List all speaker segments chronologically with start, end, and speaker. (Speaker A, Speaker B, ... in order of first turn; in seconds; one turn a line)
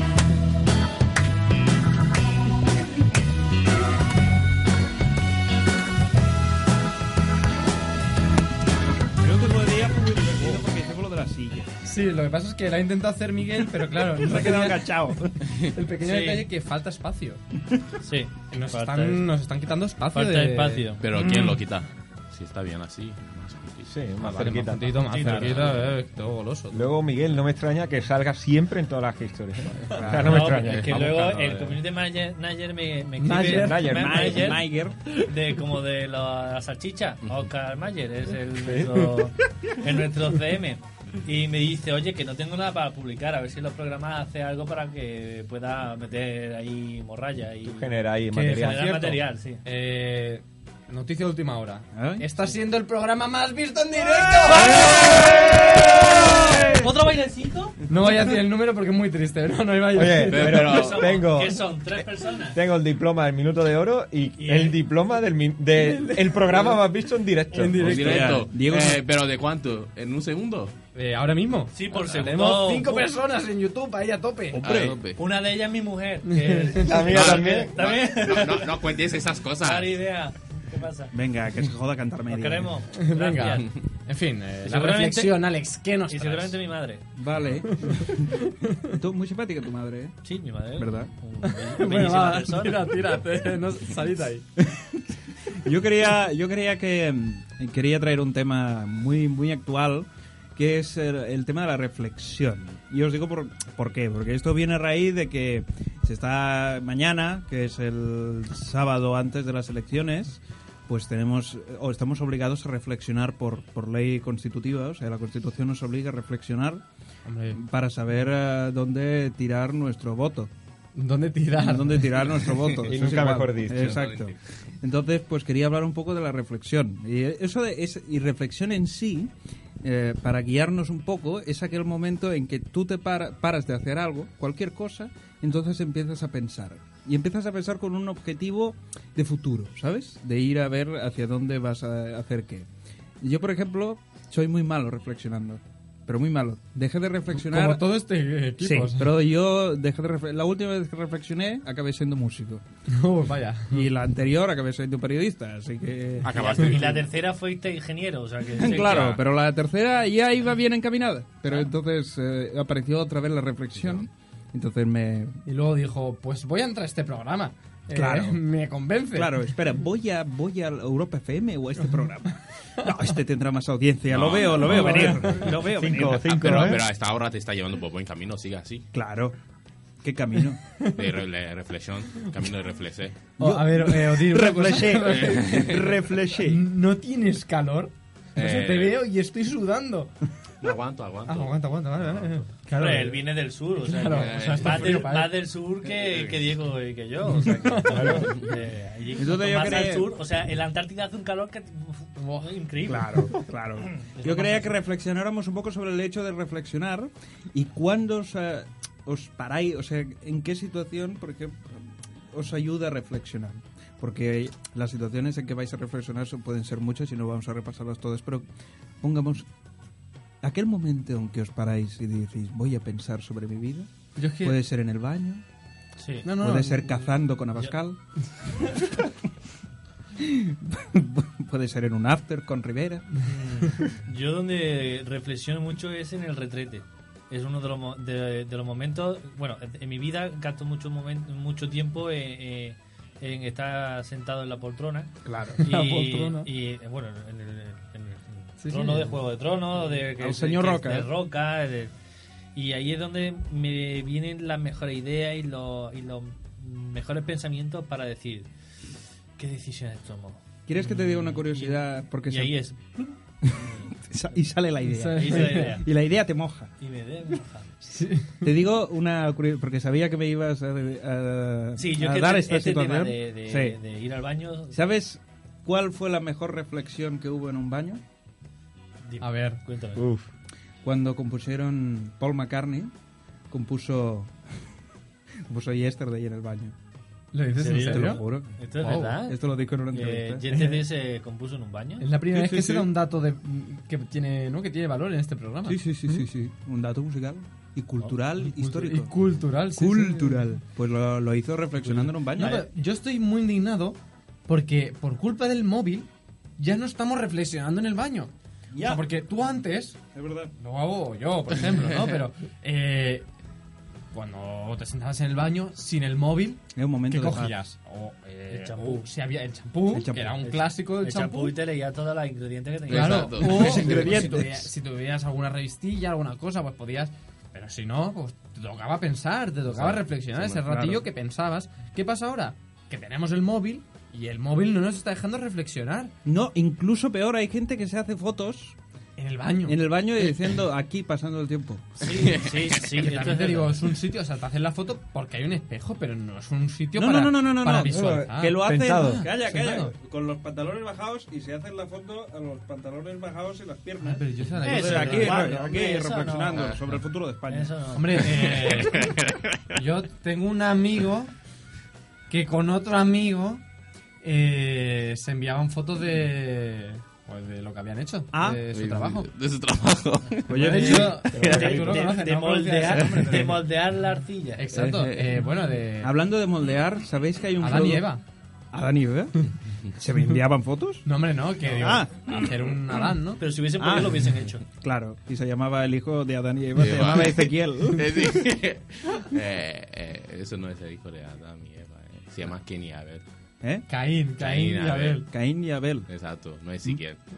Speaker A: 9.2-11.8
Speaker B: 11.8-17.4
Speaker A: 14.2-15.4
Speaker C: 16.0-16.4
Speaker C: 18.0-19.3
Speaker B: 18.5-20.9
Speaker C: 20.1-21.0
Speaker D: 21.0-23.9
Speaker A: 21.2-21.5
Speaker E: 23.9-25.8
Speaker B: 24.2-26.9
Speaker C: 25.1-25.6
Speaker D: 25.3-25.7
Speaker E: 26.7-31.2
Speaker A: 29.9-30.4
Speaker B: 29.9-31.3
Speaker C: 30.2-49.6
Speaker D: 31.2-31.5
Speaker B: 33.2-34.0
Speaker E: 33.4-34.5
Speaker A: 33.5-35.0
Speaker B: 38.7-39.0
Speaker E: 47.6-49.2
Speaker B: 48.3-56.7
Speaker A: 51.9-52.2
Speaker A: 54.5-56.8
Speaker C: 54.5-57.7
Speaker B: 57.9-60.7
Speaker E: 59.9-68.3
Speaker D: 60.3-61.2
Speaker C: 60.5-62.6
Speaker C: 64.4-64.8
Speaker B: 65.7-66.8
Speaker B: 67.5-68.4
Speaker D: 67.7-70.7
Speaker A: 67.8-69.0
Speaker B: 70.9-74.8
Speaker C: 71.7-73.1
Speaker A: 74.5-75.0
Speaker D: 74.6-75.2
Speaker C: 75.2-78.9
Speaker B: 76.2-77.0
Speaker E: 76.8-77.8
Speaker D: 77.1-79.9
Speaker C: 79.6-81.1
Speaker A: 81.1-82.7
Speaker C: 82.3-83.7
Speaker B: 82.9-86.6
Speaker C: 84.6-85.4
Speaker C: 86.1-87.0
Speaker A: 87.2-88.4
Speaker B: 87.7-89.0
Speaker A: 88.9-90.2
Speaker C: 90.2-92.9
Speaker A: 90.8-91.1
Speaker B: 91.4-94.5
Speaker A: 94.6-116.8
Speaker B: 117.2-117.6
Speaker A: 117.5-120.5
Speaker B: 120.9-122.4
Speaker A: 121.6-129.3
Speaker E: 122.8-124.0
Speaker D: 123.8-124.3
Speaker A: 129.8-142.7
Speaker A: 143.2-147.8
Speaker B: 147.3-149.2
Speaker A: 148.6-152.6
Speaker B: 152.9-153.9
Speaker A: 153.7-156.3
Speaker D: 156.2-157.0
Speaker C: 156.3-159.2
Speaker A: 158.6-165.4
Speaker D: 158.9-159.2
Speaker D: 163.8-164.1
Speaker B: 165.4-169.5
Speaker A: 167.9-168.4
Speaker A: 169.1-176.4
Speaker D: 174.1-174.9
Speaker B: 174.6-175.6
Speaker E: 174.8-176.9
Speaker D: 176.2-178.8
Speaker A: 178.9-179.3
Speaker A: 180.0-180.6
Speaker B: 180.8-181.1
Speaker D: 180.9-183.3
Speaker A: 183.4-186.6
Speaker B: 183.4-190.1
Speaker D: 185.2-185.7
Speaker D: 188.3-189.0
Speaker D: 190.6-192.4
Speaker B: 191.2-195.3
Speaker C: 192.7-203.3
Speaker D: 194.1-195.0
Speaker D: 195.9-196.5
Speaker B: 197.5-198.3
Speaker A: 199.2-200.1
Speaker B: 202.2-202.5
Speaker A: 202.9-218.4
Speaker C: 204.0-204.7
Speaker A: 219.0-219.4
Speaker A: 220.4-225.4
Speaker B: 224.2-224.6
Speaker C: 226.0-226.3
Speaker B: 226.2-227.1
Speaker A: 226.4-228.0
Speaker A: 230.2-233.1
Speaker C: 233.2-251.9
Speaker A: 245.2-245.6
Speaker B: 245.6-246.5
Speaker B: 248.6-249.2
Speaker A: 250.2-251.1
Speaker C: 252.5-258.5
Speaker C: 259.4-263.9
Speaker A: 260.7-262.6
Speaker A: 263.4-266.7
Speaker B: 264.8-265.8
Speaker C: 265.1-265.9
Speaker C: 266.8-267.7
Speaker B: 267.8-268.5
Speaker A: 268.4-273.8
Speaker C: 271.8-274.8
Speaker A: 274.7-278.0
Speaker C: 279.0-280.0
Speaker B: 279.2-279.6
Speaker E: 279.9-280.3
Speaker A: 280.8-282.9
Speaker A: 283.5-284.3
Speaker A: 285.5-286.7
Speaker B: 287.3-288.2
Speaker C: 287.6-292.1
Speaker A: 287.7-288.5
Speaker B: 288.8-289.2
Speaker A: 289.3-290.4
Speaker B: 290.5-290.9
Speaker B: 292.0-296.3
Speaker A: 292.3-292.9
Speaker A: 295.6-299.1
Speaker B: 298.4-300.6
Speaker A: 299.7-302.6
Speaker C: 301.8-302.6
Speaker B: 302.3-310.0
Speaker A: 308.7-309.0
Speaker A: 310.1-310.5
Speaker B: 310.6-313.2
Speaker B: 314.1-321.6
Speaker A: 316.7-317.5
Speaker C: 318.5-319.0
Speaker A: 319.9-320.4
Speaker C: 320.4-323.4
Speaker D: 322.9-324.1
Speaker B: 322.9-336.1
Speaker A: 323.4-324.7
Speaker D: 329.7-330.6
Speaker A: 330.6-331.0
Speaker A: 336.2-338.8
Speaker B: 339.2-340.4
Speaker A: 339.6-342.0
Speaker C: 342.0-343.7
Speaker D: 342.1-342.8
Speaker B: 342.9-349.9
Speaker A: 346.9-358.0
Speaker E: 347.9-349.2
Speaker B: 354.0-355.5
Speaker C: 354.6-356.7
Speaker C: 357.5-359.1
Speaker B: 357.9-359.1
Speaker D: 358.6-359.6
Speaker B: 359.7-361.3
Speaker B: 362.3-363.6
Speaker B: 364.2-369.3
Speaker A: 368.3-368.6
Speaker D: 368.7-371.7
Speaker A: 370.5-371.2
Speaker B: 370.5-373.6
Speaker C: 370.7-374.6
Speaker E: 371.3-372.1
Speaker A: 372.9-373.5
Speaker B: 374.6-376.2
Speaker A: 374.7-375.1
Speaker D: 374.9-375.3
Speaker A: 376.0-378.1
Speaker B: 377.6-378.2
Speaker A: 378.7-381.1
Speaker B: 381.0-383.4
Speaker A: 381.7-382.9
Speaker C: 383.4-384.6
Speaker A: 383.8-388.2
Speaker D: 386.8-393.2
Speaker B: 393.9-395.2
Speaker D: 394.4-395.2
Speaker A: 395.3-396.1
Speaker D: 396.1-397.2